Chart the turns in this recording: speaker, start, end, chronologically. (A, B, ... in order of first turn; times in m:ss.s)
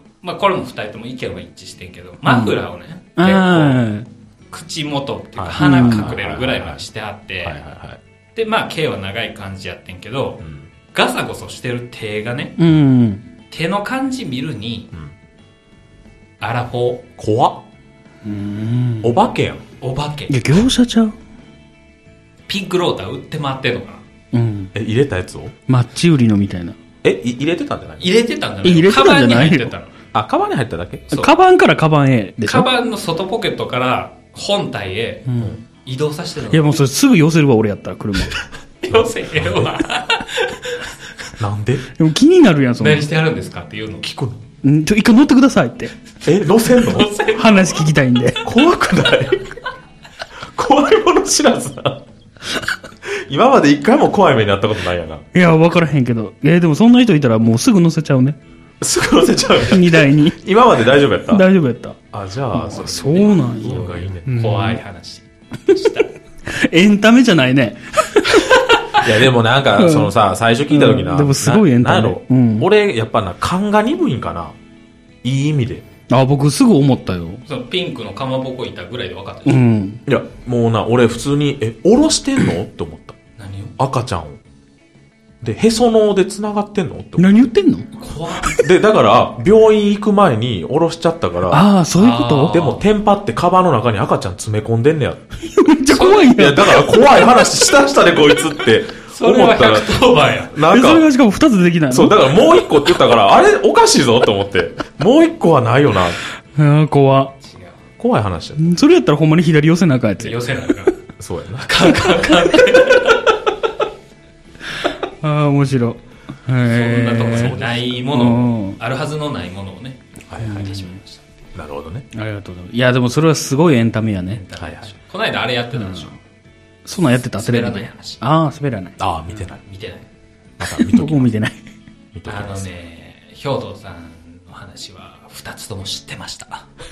0:00.2-0:03.9 A
0:02.2-0:02.6 B
0:03.2-0:04.1 B
0:04.5-0:07.6 A
0:05.4-0:06.8 C
0:05.6-0:06.2 B
0:07.4-0:08.0 C
0:08.3-0:12.6 A
0:12.6-0:13.2 B
0:13.5-0:14.9 A
0:16.4-0:17.0 A
0:17.2-0:17.6 C
0:18.2-0:19.2 B
0:19.0-0:19.6 C
0:19.8-0:20.5 A
0:20.3-0:21.2 B
0:22.5-0:24.0 A
0:24.3-0:24.7 B
0:24.7-0:25.5 C
0:25.7-0:26.8 B
0:27.0-0:28.1 C
0:28.0-0:29.9 A
0:28.6-0:29.7 B
0:30.1-0:31.1 C
0:31.1-0:32.7 B
0:32.4-0:36.7 A
0:35.3-0:35.6 B
0:36.5-0:38.4 B
0:38.8-0:41.3 A
0:38.9-0:39.8 C
0:41.4-0:41.9 C
0:42.0-0:43.1 B
0:42.8-0:44.1 A
0:44.0-0:44.4 C
0:44.6-0:45.9 B
0:46.2-0:47.1 C
0:46.7-0:47.9 A
0:47.4-0:48.4 B
0:48.4-0:49.5 C
0:50.5-0:52.0 C
0:53.1-0:55.2 C
0:55.3-0:58.4 B
0:58.8-1:01.5 C
0:59.6-1:00.4 B
1:01.3-1:02.0 B
1:02.1-1:04.6 C
1:02.5-1:04.8 B
1:03.1-1:06.1 A
1:06.4-1:09.1 B
1:08.9-1:14.5 C
1:09.8-1:10.1 B
1:10.7-1:12.7 B
1:15.2-1:15.8 C
1:16.1-1:17.4 B
1:17.4-1:19.6 A
1:19.4-1:20.0 B
1:20.1-1:23.2 C
1:23.4-1:23.7 A
1:23.8-1:24.4 C
1:25.4-1:27.5 C
1:27.2-1:27.9 B
1:28.0-1:28.7 A
1:28.5-1:35.2 C
1:31.5-1:32.6 B
1:32.0-1:32.8 A
1:35.4-1:37.1 B
1:35.9-1:36.3 A
1:36.2-1:41.0 C
1:39.1-1:40.5 A
1:40.6-1:42.3 B
1:41.9-1:46.2 C
1:46.5-1:47.3 B
1:47.4-1:47.8 A
1:48.0-1:48.8 C
1:48.6-1:50.4 B
1:50.2-1:51.0 A
1:51.2-1:52.2 C
1:51.6-1:53.3 A
1:54.8-1:58.8 B
1:56.6-2:01.3 A
1:57.3-1:57.9 C
2:00.3-2:00.7 C
2:00.4-2:00.9 B
2:01.5-2:02.1 C
2:02.1-2:04.4 B
2:04.3-2:06.2 A
2:04.6-2:04.9 C
2:05.7-2:06.1 B
2:06.8-2:09.0 B
2:07.2-2:08.2 A
2:09.0-2:09.6 C
2:09.6-2:10.1 A
2:10.6-2:11.3 C
2:10.7-2:11.6 B
2:12.1-2:12.7 C
2:12.3-2:16.7 A